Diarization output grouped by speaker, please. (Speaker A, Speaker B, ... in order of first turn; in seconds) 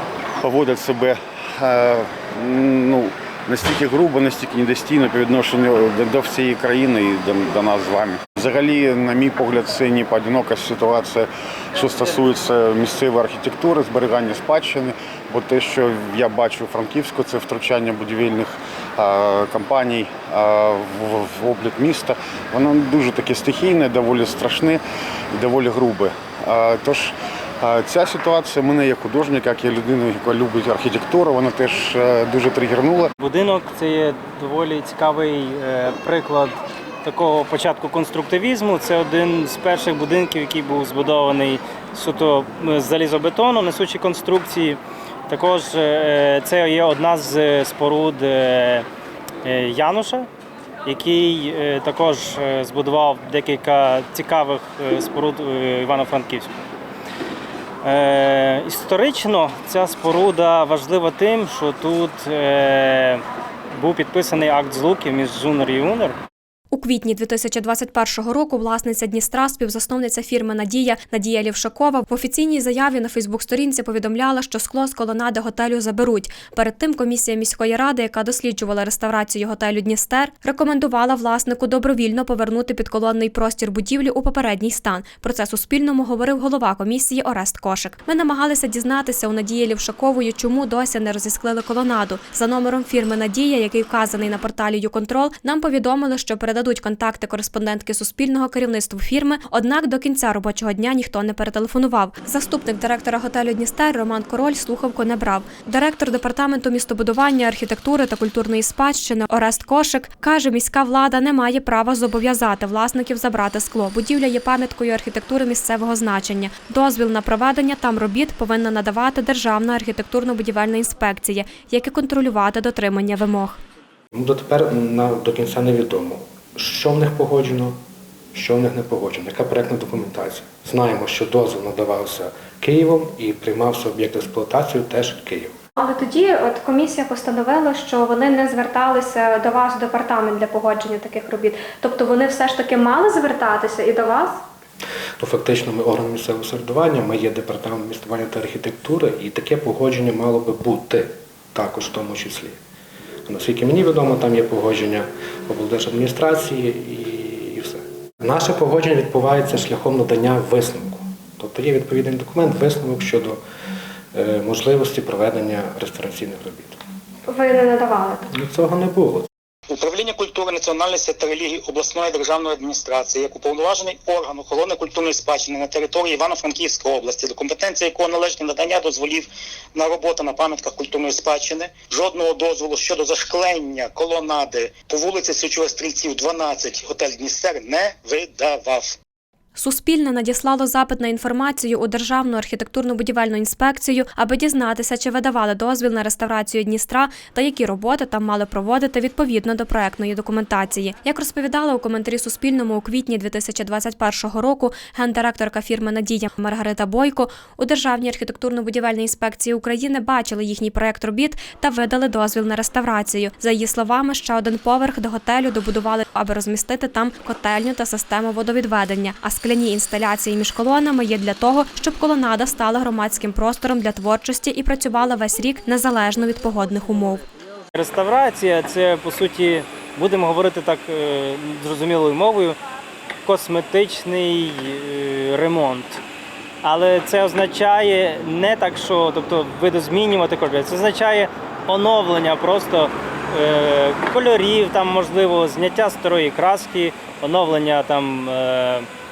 Speaker A: 0.4-24.8, 25.3-33.1
Speaker B: 33.2-48.9, 49.4-50.3, 50.8-56.5, 57.8-63.2, 63.7-66.2, 227.7-232.6, 233.2-236.0, 236.6-248.9
Speaker C: 66.7-123.6, 135.8-144.4, 167.3-168.3, 189.5-227.2
Speaker D: 124.1-127.7, 128.3-135.5, 145.2-152.6, 153.3-163.4, 164.1-166.8, 168.3-169.3
Speaker E: 169.7-189.0